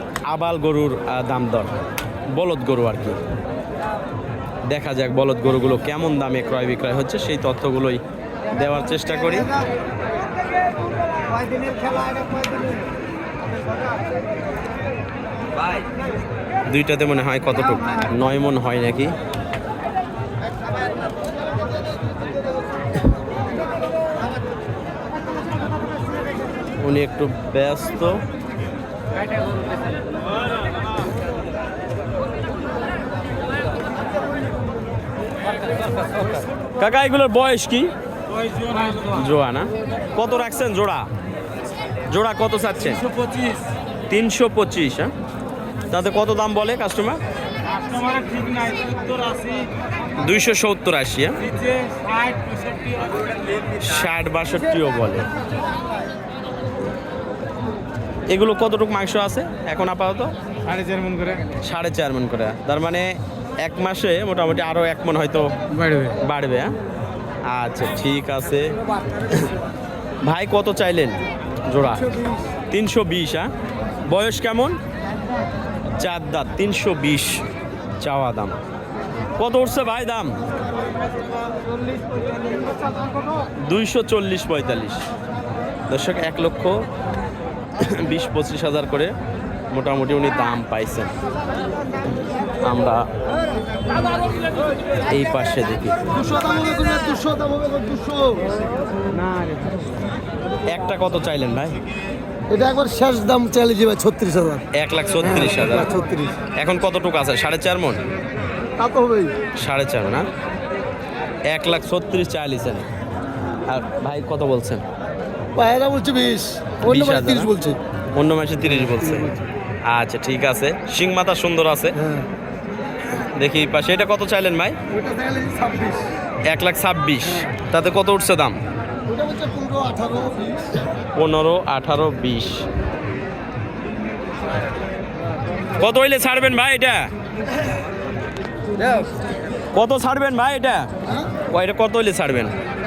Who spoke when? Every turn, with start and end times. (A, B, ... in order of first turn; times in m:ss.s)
0:00.3-0:01.8 A
0:02.3-0:03.2 A
0:04.7-0:08.0 A
0:08.5-0:09.5 A
0:16.7-0:19.1 A
0:26.8-0:28.2 A
0:36.8-0:37.9 A
0:39.0-0:41.1 A
0:42.1-0:43.1 A
0:44.1-0:45.1 A
0:45.9-0:47.2 A
0:47.7-0:49.7 B
0:50.2-0:51.5 A
0:51.7-0:53.3 B
0:53.8-0:55.3 A
0:58.3-1:00.3 A
1:00.8-1:01.4 B
1:01.6-1:06.7 A
1:07.5-1:08.7 A
1:10.2-1:12.0 A
1:12.7-1:13.5 A
1:14.1-1:14.8 A
1:16.0-1:17.4 A
1:18.0-1:18.6 A
1:19.4-1:20.4 A
1:23.6-1:25.0 A
1:25.9-1:26.8 A
1:27.8-1:29.1 A
1:29.7-1:31.1 A
1:32.6-1:33.1 A
1:35.1-1:36.0 A
1:36.1-1:38.4 C
1:40.7-1:41.8 A
1:42.5-1:44.6 C
1:44.7-1:45.9 A
1:45.2-1:46.3 C
1:46.6-1:48.0 A
1:48.8-1:49.3 C
1:49.6-1:50.3 A
1:51.5-1:52.8 A
1:53.7-1:54.8 A
1:55.5-1:57.8 C
1:56.8-1:57.5 A
1:58.1-1:59.3 A
1:59.9-2:02.0 A
2:02.0-2:02.2 C
2:03.3-2:04.8 A
2:04.9-2:06.0 C
2:06.5-2:08.6 A
2:09.1-2:10.7 C
2:11.2-2:12.6 A
2:15.8-2:17.1 A
2:19.7-2:20.9 A
2:21.5-2:22.5 A